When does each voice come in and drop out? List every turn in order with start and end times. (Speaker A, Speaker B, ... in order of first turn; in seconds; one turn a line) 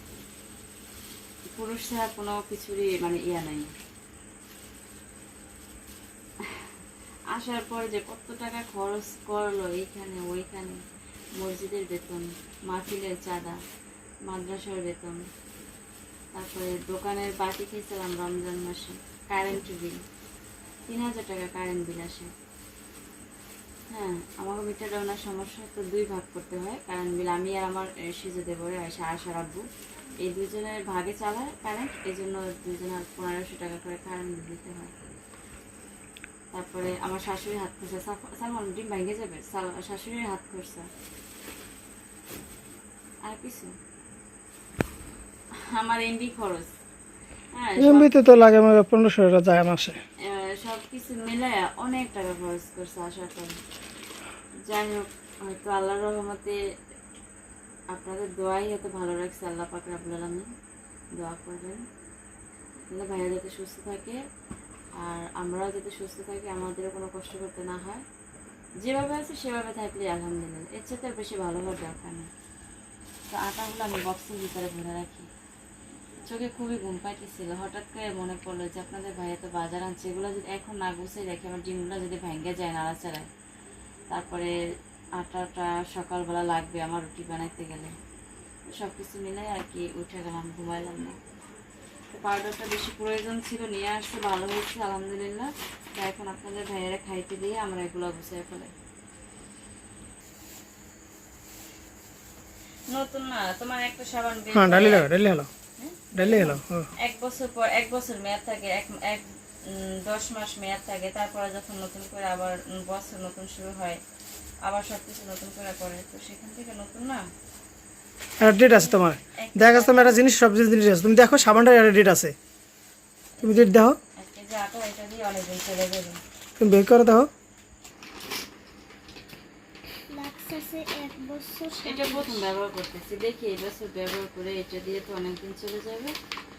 Speaker A: 1.6-3.7
Speaker A: 7.3-10.8
Speaker A: 11.3-13.6
Speaker A: 14.2-15.3
Speaker A: 16.3-20.0
Speaker A: 20.9-22.3
Speaker A: 23.9-29.6
Speaker A: 30.2-34.9
Speaker A: 36.5-40.9
Speaker A: 43.2-43.7
Speaker A: 45.6-46.7
Speaker A: 47.5-48.1
Speaker B: 47.8-50.0
Speaker A: 50.2-53.6
Speaker A: 54.7-56.6
Speaker A: 57.9-60.5
Speaker A: 61.2-61.8
Speaker A: 62.9-64.2
Speaker A: 65.0-68.0
Speaker A: 68.8-72.3
Speaker A: 73.3-75.3
Speaker A: 76.2-83.3
Speaker A: 84.1-84.5
Speaker A: 85.2-87.9
Speaker A: 88.7-91.2
Speaker A: 92.1-98.7
Speaker A: 102.9-105.1
Speaker B: 104.5-105.5
Speaker A: 105.8-114.0
Speaker B: 106.1-106.9
Speaker A: 114.6-117.3
Speaker B: 118.4-122.3
Speaker A: 118.6-120.2
Speaker A: 123.4-126.2
Speaker B: 123.4-124.0
Speaker B: 126.6-127.3
Speaker C: 130.1-132.3
Speaker A: 131.8-136.2